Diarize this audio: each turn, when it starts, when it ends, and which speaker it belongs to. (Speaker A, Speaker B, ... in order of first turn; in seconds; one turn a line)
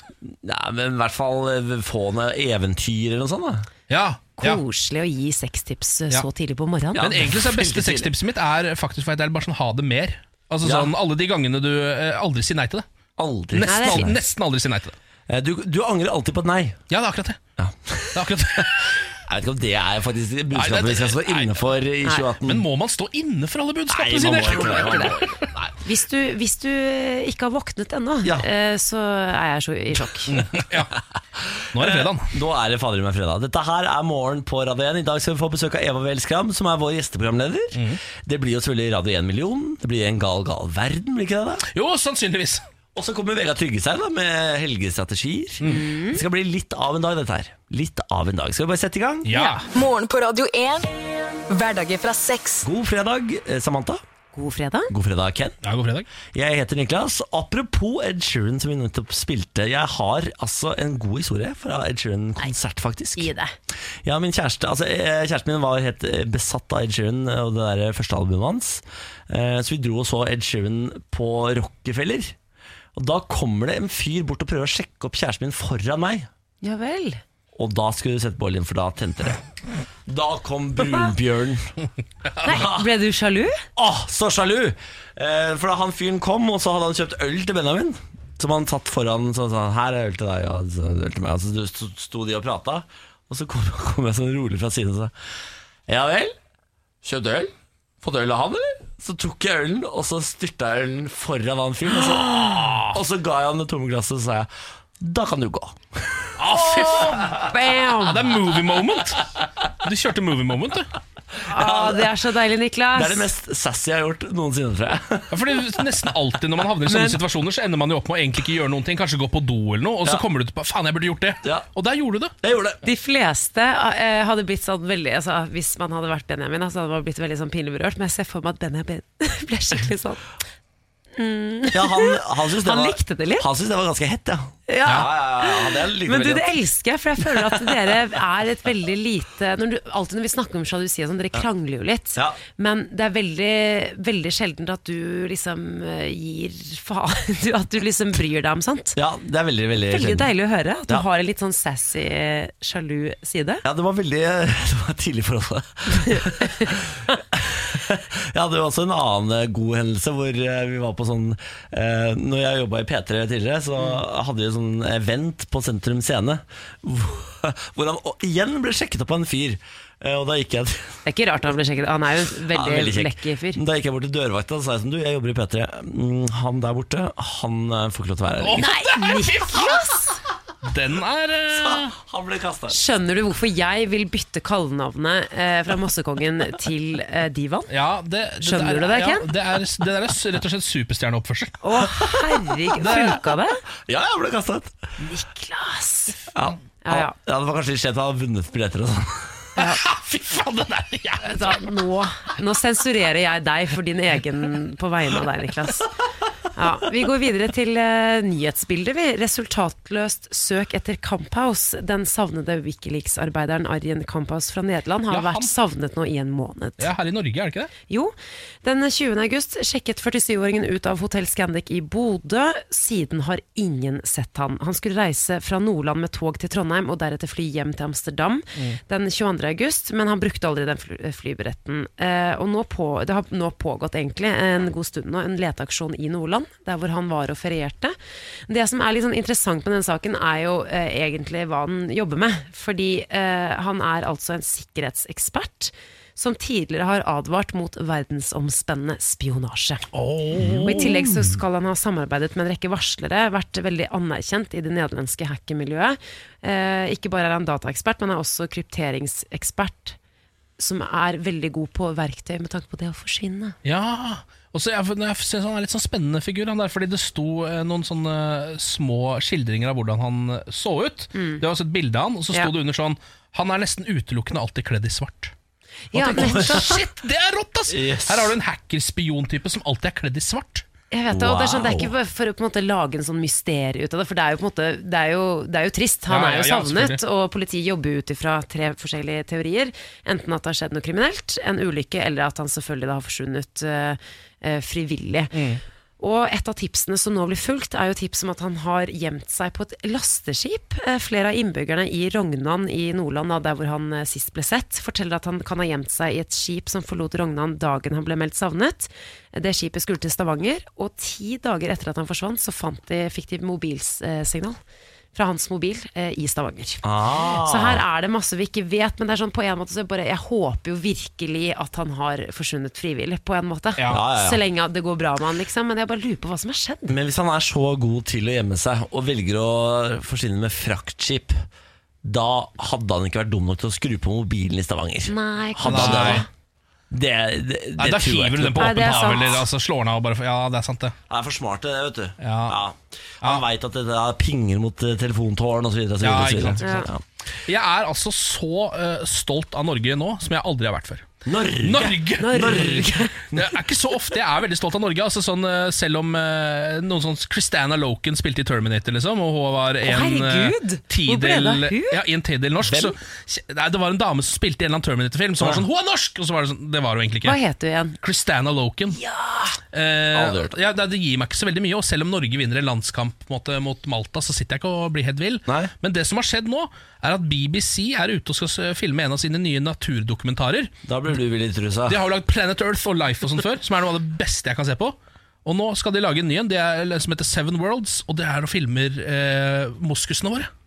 Speaker A: 0.2-3.7
Speaker B: 3.9-4.6
Speaker C: 4.4-7.1
Speaker A: 6.9-8.1
Speaker B: 7.0-12.8
Speaker A: 10.6-10.9
Speaker A: 13.2-14.2
Speaker B: 13.5-14.9
Speaker C: 13.6-14.1
Speaker A: 15.3-16.8
Speaker B: 16.9-17.4
Speaker A: 17.6-22.6
Speaker B: 18.1-19.0
Speaker B: 20.5-21.8
Speaker B: 22.4-25.5
Speaker A: 23.9-25.7
Speaker C: 24.4-25.2
Speaker C: 25.8-30.4
Speaker B: 30.3-30.9
Speaker A: 31.4-41.6
Speaker B: 31.7-32.3
Speaker B: 37.7-38.0
Speaker B: 41.7-42.6
Speaker A: 42.9-49.3
Speaker C: 45.6-46.2
Speaker B: 49.2-49.7
Speaker C: 49.3-49.6
Speaker D: 49.7-50.9
Speaker D: 51.5-52.7
Speaker A: 52.6-54.0
Speaker C: 54.3-54.9
Speaker A: 54.9-55.6
Speaker B: 55.6-56.1
Speaker A: 56.3-63.3
Speaker C: 63.1-63.5
Speaker A: 64.0-72.3
Speaker A: 72.9-76.3
Speaker C: 76.6-77.2
Speaker A: 77.5-79.4
Speaker A: 80.0-81.7
Speaker C: 82.4-83.6
Speaker A: 82.4-82.9
Speaker A: 83.8-95.1
Speaker A: 95.9-96.3
Speaker A: 97.0-106.6
Speaker B: 102.3-103.0
Speaker B: 106.4-110.9
Speaker C: 107.4-108.3
Speaker C: 111.5-113.3
Speaker A: 111.5-112.2
Speaker A: 112.9-115.6
Speaker B: 115.3-122.3
Speaker C: 116.8-117.2
Speaker A: 122.4-122.8
Speaker C: 122.8-130.2
Speaker C: 131.1-133.5
Speaker A: 131.7-136.5
Speaker C: 134.7-149.0
Speaker A: 137.3-138.0
Speaker A: 148.9-150.3
Speaker C: 149.8-153.6
Speaker A: 153.6-171.0
Speaker C: 156.0-156.7
Speaker C: 171.0-173.6
Speaker A: 172.5-178.7
Speaker B: 178.4-180.0
Speaker C: 178.5-180.2
Speaker B: 180.6-181.9
Speaker A: 181.5-182.8
Speaker C: 182.7-187.7
Speaker B: 187.7-191.6
Speaker C: 188.4-189.3
Speaker C: 191.6-193.6
Speaker B: 192.8-193.2
Speaker A: 193.8-194.7
Speaker C: 195.0-196.2
Speaker A: 196.3-199.5
Speaker C: 196.8-197.1
Speaker B: 199.6-201.6
Speaker C: 201.2-205.9
Speaker C: 206.5-216.9
Speaker B: 215.1-215.5
Speaker B: 216.8-217.7
Speaker C: 217.9-237.9
Speaker C: 238.5-249.8
Speaker B: 249.9-251.1
Speaker A: 250.3-251.0
Speaker C: 250.6-260.0
Speaker C: 260.6-263.6
Speaker B: 263.6-275.3
Speaker C: 271.1-271.4
Speaker C: 275.9-276.8
Speaker B: 275.9-280.6
Speaker A: 276.0-276.7
Speaker A: 277.7-278.3
Speaker C: 280.9-295.3
Speaker A: 281.1-281.9
Speaker B: 286.1-287.0
Speaker B: 295.3-295.6
Speaker C: 296.0-314.6
Speaker C: 315.1-326.9
Speaker A: 316.8-317.8
Speaker A: 323.9-324.4
Speaker A: 326.9-331.4
Speaker A: 332.0-336.2
Speaker C: 335.1-336.3
Speaker B: 335.6-336.2
Speaker A: 336.9-338.8
Speaker B: 337.8-340.9
Speaker C: 338.6-339.4
Speaker A: 341.1-347.0
Speaker B: 342.2-342.6
Speaker B: 346.0-346.9
Speaker C: 346.6-346.9
Speaker B: 347.5-351.1
Speaker A: 351.2-353.4
Speaker B: 351.6-367.4
Speaker C: 352.2-353.2
Speaker C: 359.8-362.0
Speaker A: 362.6-362.9
Speaker C: 367.2-368.0
Speaker B: 368.0-369.0
Speaker C: 368.9-369.6
Speaker B: 369.7-380.7
Speaker A: 370.1-370.6
Speaker A: 375.5-375.7
Speaker A: 380.9-382.0
Speaker B: 381.9-390.5